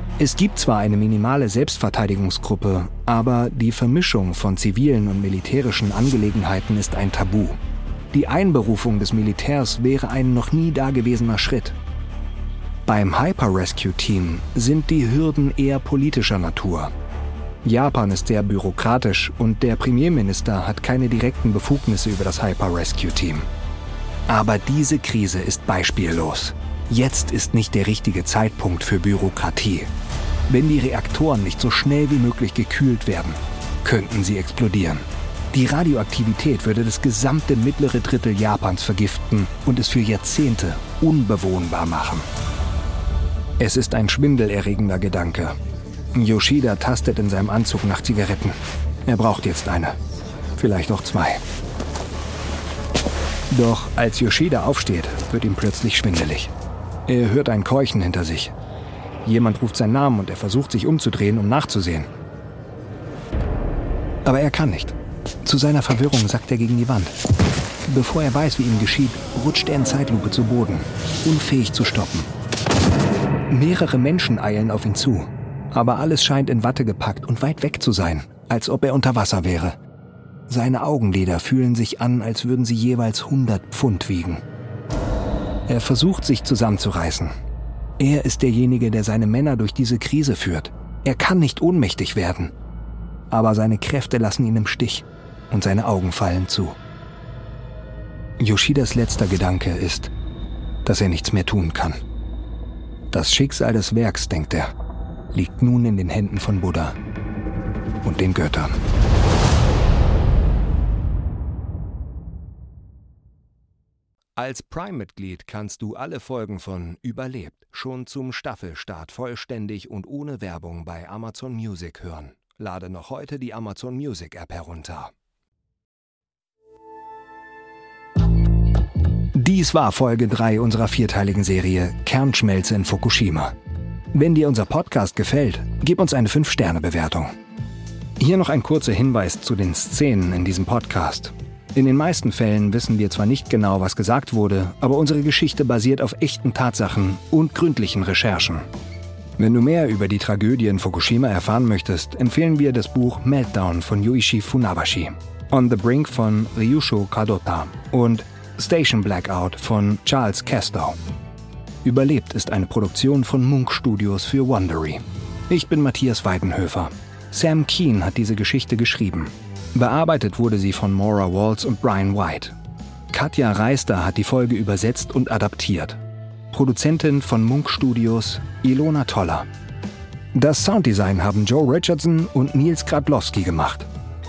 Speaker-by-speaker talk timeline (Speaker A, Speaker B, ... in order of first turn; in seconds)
Speaker A: 0.2-7.6, 8.1-11.8, 12.8-16.9, 17.6-23.5, 24.3-29.9, 30.5-42.2, 43.6-45.5, 46.1-49.9, 50.5-51.4, 53.5-56.5, 57.1-58.5, 59.2-62.1, 64.2-67.2, 67.9-72.3, 73.5-79.8, 80.5-84.4, 85.7-87.3, 88.0-92.5, 93.3-96.8, 98.4-100.1, 100.8-102.0, 103.1-104.7, 105.3-107.0, 108.0-108.8, 114.4-125.1, 129.3-133.5, 134.1-137.3, 138.2-148.7, 149.4-161.0, 161.8-172.6, 173.1-176.0, 176.5-179.5, 180.3-183.9